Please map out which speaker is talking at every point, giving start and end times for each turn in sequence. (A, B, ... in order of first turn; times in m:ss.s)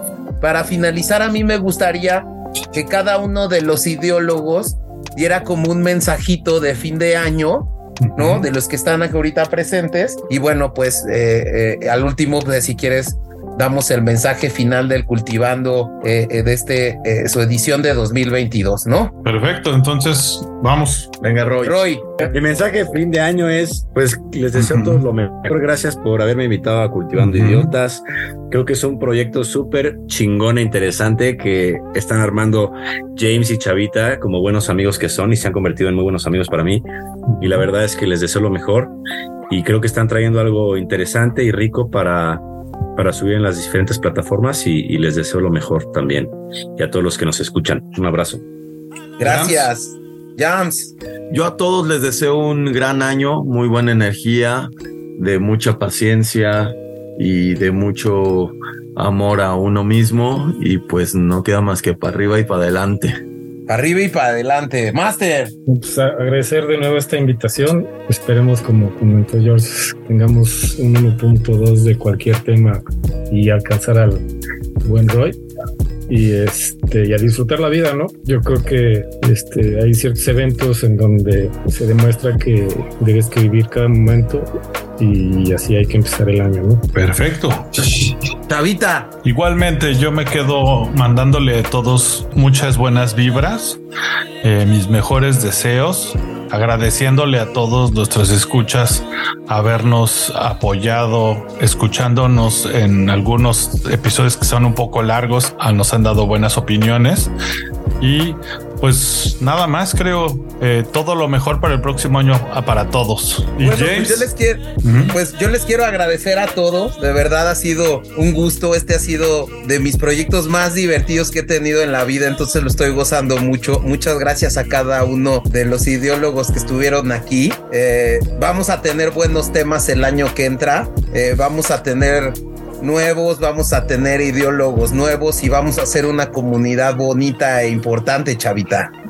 0:00.4-0:19.1 A
0:08.0-0:08.5 B
0:19.2-0:21.1 B
0:21.2-0:21.8 C
0:21.6-0:22.3 A
0:22.3-0:36.8 D
0:24.6-0:25.0 B
0:27.1-0:27.7 B
0:37.3-0:37.6 B
0:37.4-0:38.9 D
0:39.5-0:42.4 D
0:43.0-0:48.4 D
0:49.2-0:50.9 A
0:49.2-0:49.7 B
0:51.3-1:03.1 C
1:03.7-1:05.5 A
1:05.6-1:14.2 E
1:14.8-1:15.4 E
1:16.1-1:26.8 E
1:26.9-1:28.1 B
1:28.5-1:29.1 A
1:29.2-1:33.8 B
1:34.4-1:47.3 B
1:48.0-1:54.3 B
1:53.6-2:18.9 A
1:54.8-1:55.2 B